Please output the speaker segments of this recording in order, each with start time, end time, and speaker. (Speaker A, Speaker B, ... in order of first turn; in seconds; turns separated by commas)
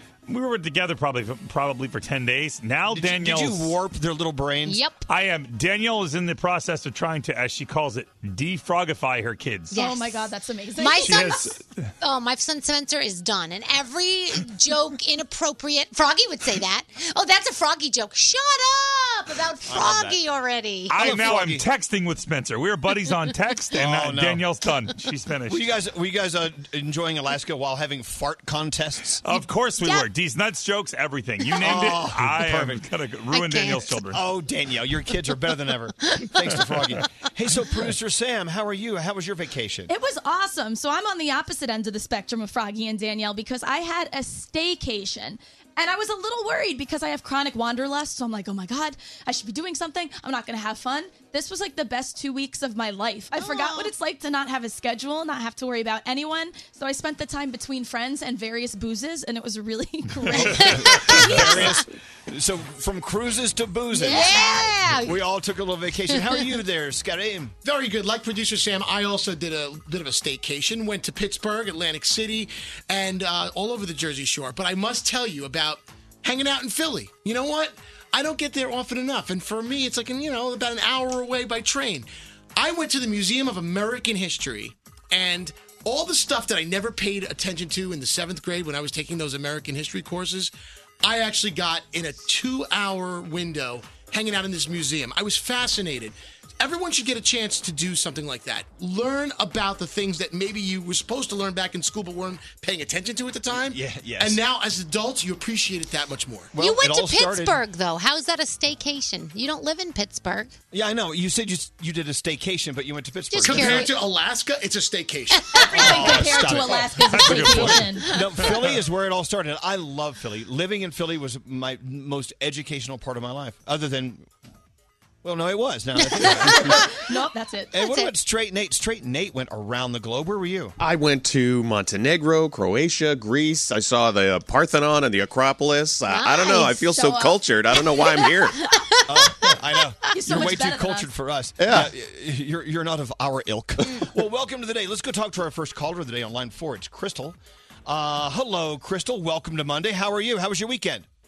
Speaker A: 0.3-3.8, Speaker B: 2.9-4.8, Speaker C: 4.7-5.0, Speaker A: 5.1-9.8, Speaker C: 9.7-10.2, Speaker D: 9.7-11.4, Speaker C: 10.8-11.5, Speaker A: 11.0-11.9, Speaker C: 12.0-20.9, Speaker B: 19.6-20.2, Speaker A: 20.9-25.7, Speaker B: 20.9-21.7, Speaker B: 23.7-24.5, Speaker B: 25.5-29.2, Speaker A: 29.2-34.2, Speaker C: 29.8-30.1, Speaker B: 31.6-32.8, Speaker C: 33.3-33.9, Speaker B: 34.1-39.9, Speaker D: 39.9-61.8, Speaker C: 53.4-53.9, Speaker B: 60.3-64.4, Speaker A: 60.4-60.7, Speaker C: 60.5-61.8, Speaker C: 63.9-65.2, Speaker D: 64.0-64.8, Speaker B: 65.0-67.5, Speaker C: 66.1-66.5, Speaker E: 67.6-106.5, Speaker B: 103.5-104.4, Speaker B: 106.5-107.6, Speaker C: 106.6-110.5, Speaker B: 110.7-113.9, Speaker C: 113.3-114.0, Speaker E: 113.5-115.5, Speaker C: 115.4-115.9, Speaker D: 115.5-118.1, Speaker B: 115.7-124.3, Speaker A: 117.0-118.7, Speaker C: 118.1-118.4, Speaker B: 125.2-126.9, Speaker C: 126.0-126.9, Speaker D: 126.7-127.7, Speaker B: 127.7-130.8, Speaker C: 127.7-128.2, Speaker F: 130.8-138.6, Speaker C: 136.1-136.9, Speaker D: 136.6-137.4, Speaker C: 137.7-139.8, Speaker B: 139.1-151.1, Speaker D: 140.1-141.1, Speaker F: 141.6-141.9